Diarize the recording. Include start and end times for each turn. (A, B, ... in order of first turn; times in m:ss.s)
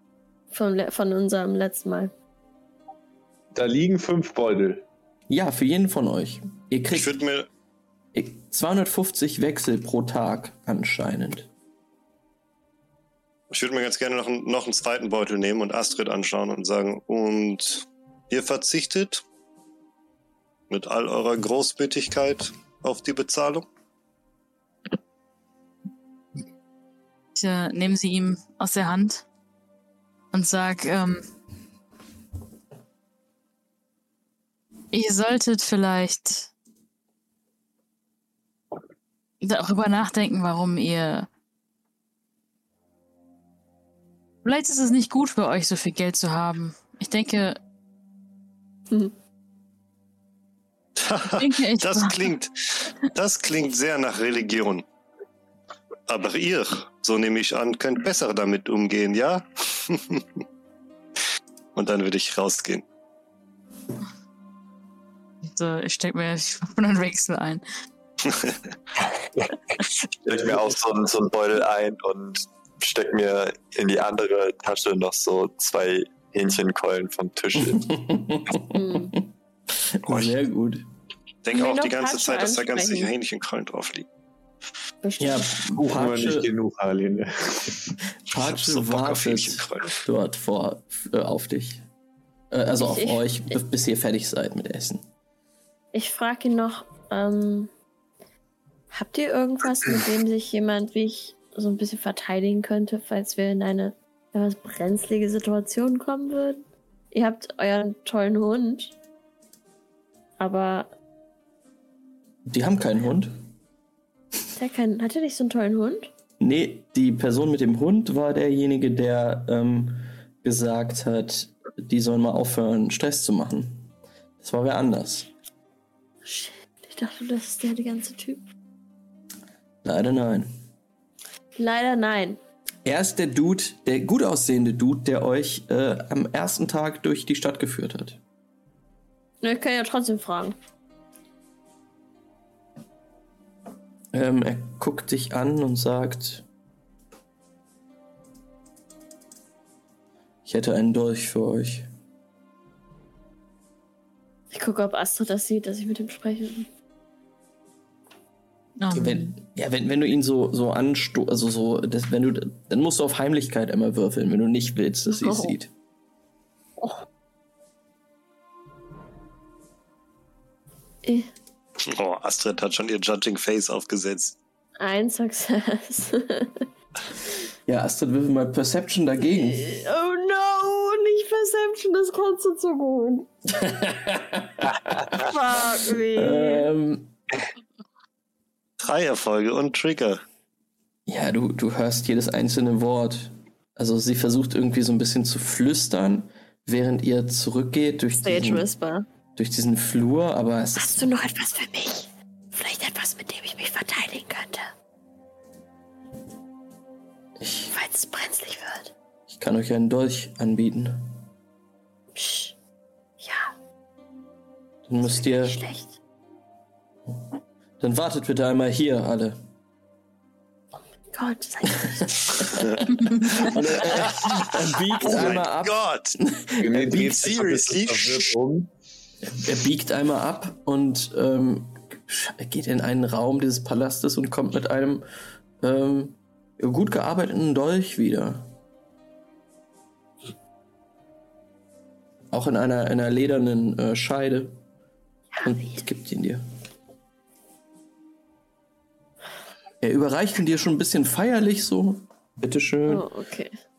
0:00.5-0:02.1 A
0:03.5-0:04.8 B
0:05.3-0:07.2 C
0:06.9-0:07.5 D
0:08.1-0:11.5 C
0:13.5-0:19.2 D
0:20.7-0:23.7 D
0:27.4-0:29.2 E
0:30.3-0:31.2 E
0:34.9-0:36.5 E
0:39.4-0:41.3 E
0:44.4-0:47.6 E
0:51.0-0:54.8 D
0:51.3-0:52.3 E
0:56.1-1:00.2 D
1:01.8-1:02.8 D
1:05.5-1:07.6 E
1:09.2-1:17.9 F
1:17.6-1:19.2 C
1:18.7-1:19.1 A
1:19.7-1:20.9 C
1:20.1-1:20.4 D
1:21.4-1:24.1 D
1:21.5-1:23.1 A
1:25.0-1:25.5 A
1:25.2-1:26.5 C
1:25.8-1:28.0 B
1:28.3-1:31.8 C
1:28.3-1:30.0 D
1:32.5-1:35.0 C
1:32.8-1:33.6 A
1:35.9-1:37.7 A
1:38.9-1:48.9 A
1:50.4-1:50.9 A
1:52.5-1:53.3 C
1:54.6-1:56.1 A
1:56.4-2:05.3 C
2:06.2-2:08.4 A
2:09.8-2:10.5 C
2:11.6-2:12.4 A
2:12.8-2:18.2 C
2:19.4-2:20.6 A
2:24.1-2:26.4 C
2:30.5-2:31.9 C
2:34.5-2:36.7 A
2:38.8-2:39.3 E
2:38.9-2:45.7 C
2:45.1-2:45.6 A
2:51.0-2:51.3 A
2:51.8-2:54.4 D
2:54.8-2:56.7 A
2:57.7-2:59.7 C
2:59.2-3:03.3 A
3:03.5-3:05.0 C
3:05.1-3:06.7 A
3:06.1-3:07.1 C
3:08.8-3:10.2 D
3:11.1-3:18.7 C
3:18.1-3:19.1 A
3:19.4-3:21.1 C
3:20.8-3:24.7 A
3:27.4-3:27.7 C
3:27.7-3:28.9 A
3:29.3-3:31.1 C
3:32.2-3:32.6 A
3:33.2-3:33.5 A
3:34.9-3:35.6 C
3:35.1-3:36.0 A
3:37.8-3:39.4 C
3:41.1-3:42.6 A
3:43.3-3:47.4 C
3:43.7-3:46.2 D
3:46.6-3:48.7 B
3:46.9-3:48.3 D
3:49.3-3:55.0 C
3:55.6-3:58.5 C
4:02.3-4:04.6 C
4:05.3-4:05.8 A
4:05.4-4:06.4 C
4:09.8-4:13.0 C
4:12.9-4:13.6 A